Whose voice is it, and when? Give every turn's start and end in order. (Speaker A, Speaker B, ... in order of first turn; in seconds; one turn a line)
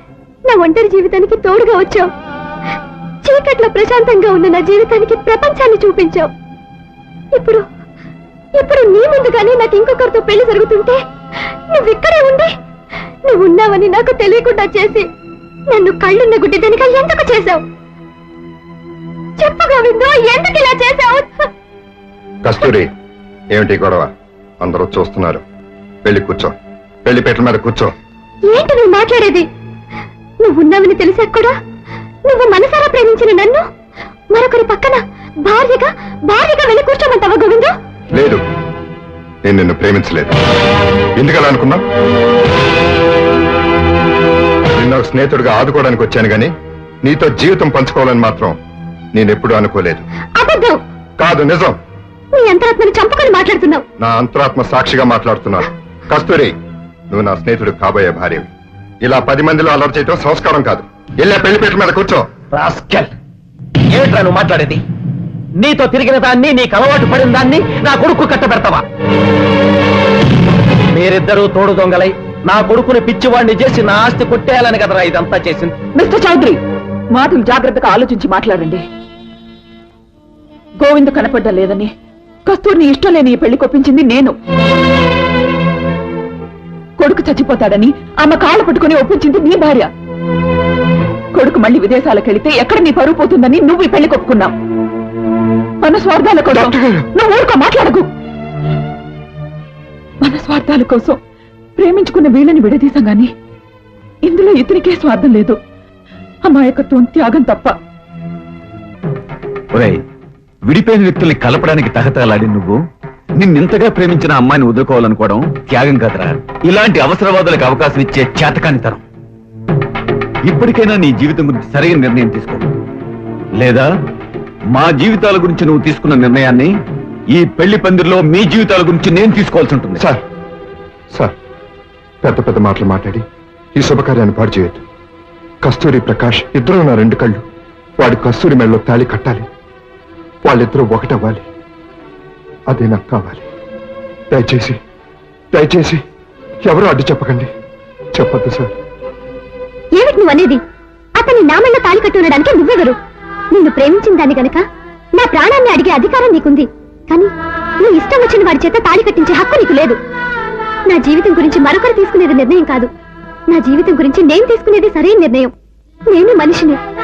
Speaker A: 0.5-2.1
Speaker A: 3.2-6.3
Speaker A: 7.3-7.6
Speaker A: 8.6-11.0
Speaker A: 11.7-12.5
Speaker A: 13.3-15.1
Speaker A: 15.7-17.6
Speaker A: 19.4-21.3
Speaker B: 22.4-22.9
Speaker B: 23.5-24.1
Speaker B: 24.6-25.4
Speaker B: 26.1-27.9
Speaker A: 28.5-29.4
Speaker A: 30.4-31.5
Speaker A: 32.3-33.6
Speaker A: 34.3-37.7
Speaker B: 38.1-38.4
Speaker B: 39.5-40.3
Speaker B: 41.2-41.8
Speaker B: 44.8-46.5
Speaker B: 47.0-48.6
Speaker B: 49.1-50.0
Speaker A: 50.4-50.8
Speaker B: 51.2-51.8
Speaker A: 52.3-53.8
Speaker B: 54.0-56.5
Speaker B: 57.1-58.5
Speaker B: 59.0-62.2
Speaker C: 62.5-63.1
Speaker C: 63.9-64.8
Speaker C: 65.6-68.8
Speaker C: 70.9-75.8
Speaker D: 76.0-76.6
Speaker D: 77.1-78.8
Speaker D: 80.8-81.9
Speaker D: 82.5-84.4
Speaker D: 87.0-89.9
Speaker D: 91.3-94.5
Speaker D: 95.8-98.1
Speaker B: 96.5-97.0
Speaker D: 100.2-101.2
Speaker D: 101.8-103.3
Speaker D: 104.2-105.6
Speaker D: 106.4-107.8
Speaker E: 109.7-110.0
Speaker E: 110.7-112.8
Speaker E: 113.4-119.0
Speaker E: 120.5-122.6
Speaker E: 123.6-123.9
Speaker E: 124.7-126.7
Speaker E: 127.3-130.0
Speaker B: 130.0-130.2
Speaker B: 132.2-133.2
Speaker B: 133.8-134.8
Speaker B: 135.6-137.4
Speaker B: 138.0-139.5
Speaker B: 140.4-141.5
Speaker B: 142.7-143.5
Speaker B: 144.3-144.8
Speaker B: 145.5-146.0
Speaker B: 146.7-147.5
Speaker B: 148.1-148.8
Speaker A: 150.0-150.6
Speaker A: 151.2-153.0
Speaker A: 153.5-154.6
Speaker A: 155.2-157.3
Speaker A: 157.8-160.0
Speaker A: 160.9-162.9
Speaker A: 163.5-165.5
Speaker A: 166.1-166.8